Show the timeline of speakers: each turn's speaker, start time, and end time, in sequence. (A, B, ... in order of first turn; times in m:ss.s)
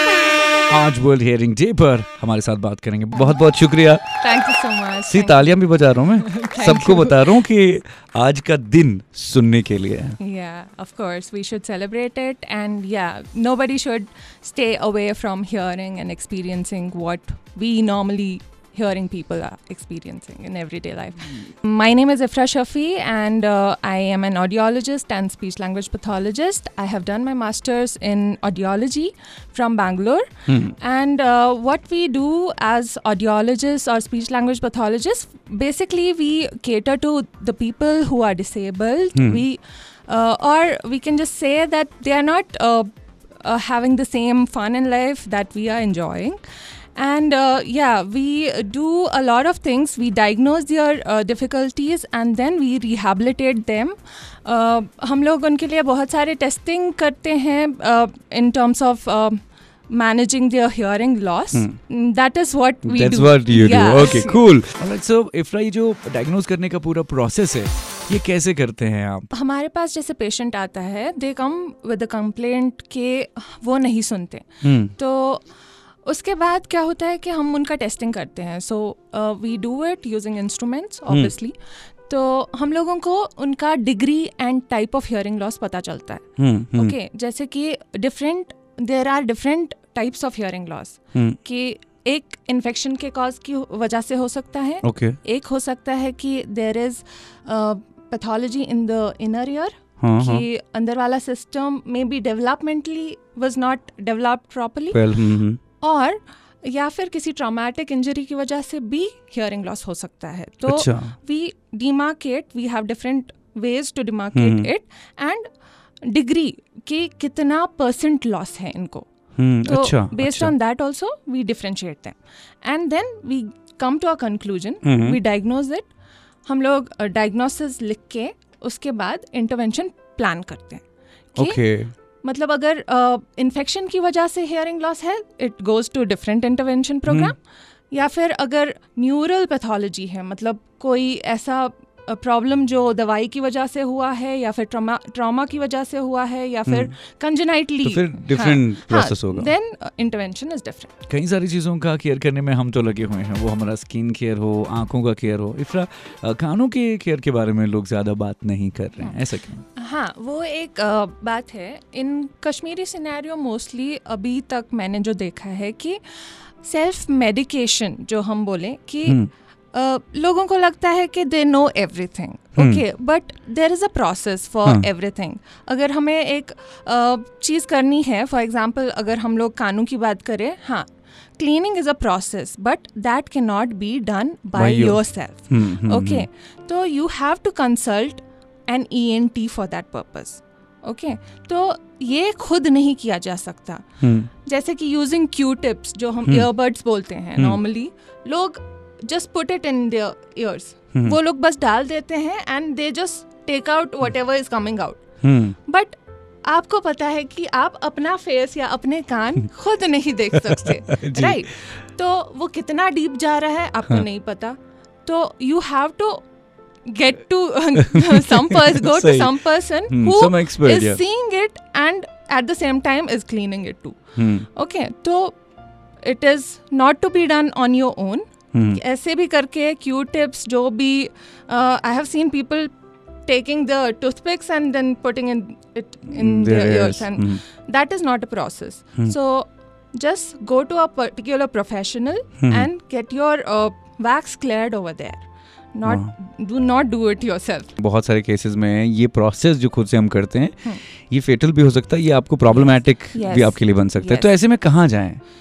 0:00.7-0:04.0 A
0:04.2-0:07.4 B
0:05.1-0:10.2 A
0:10.2-1:04.4 B
0:30.5-0:30.7 A
0:39.2-0:39.4 A
1:02.8-1:09.3 A
1:09.3-1:15.4 B
1:14.6-1:14.9 A
1:16.0-1:45.2 B
1:26.4-1:26.9 A
1:34.8-1:35.2 A
1:40.0-1:40.4 A
1:44.9-1:45.6 A
1:45.8-1:55.5 B
1:50.7-1:51.2 A
1:54.3-1:54.7 A
1:56.0-1:59.1 B
1:59.4-2:00.5 A
1:59.6-2:05.9 B
2:04.8-2:05.2 A
2:06.4-2:10.8 B
2:11.4-2:11.6 B
2:11.4-2:11.9 A
2:12.2-2:17.4 B
2:17.1-2:17.3 A
2:17.9-2:30.9 B
2:26.6-2:26.9 A
2:27.8-2:29.5 A
2:31.1-2:39.6 A
2:39.8-2:49.2 B
2:49.7-3:25.0 B
2:52.6-2:52.8 A
3:04.6-3:06.3 A
3:14.0-3:14.3 A
3:25.2-3:25.6 A
3:25.7-3:36.2 B
3:30.3-3:31.4 A
3:36.8-3:45.4 B
3:37.8-3:41.0 A
3:44.2-3:44.5 A
3:46.0-3:52.7 B
3:48.5-3:48.8 A
3:53.2-4:07.7 B
3:56.1-3:57.4 A
4:02.4-4:02.7 A
4:05.8-4:06.1 A
4:07.8-4:15.2 A
4:12.5-4:14.3 B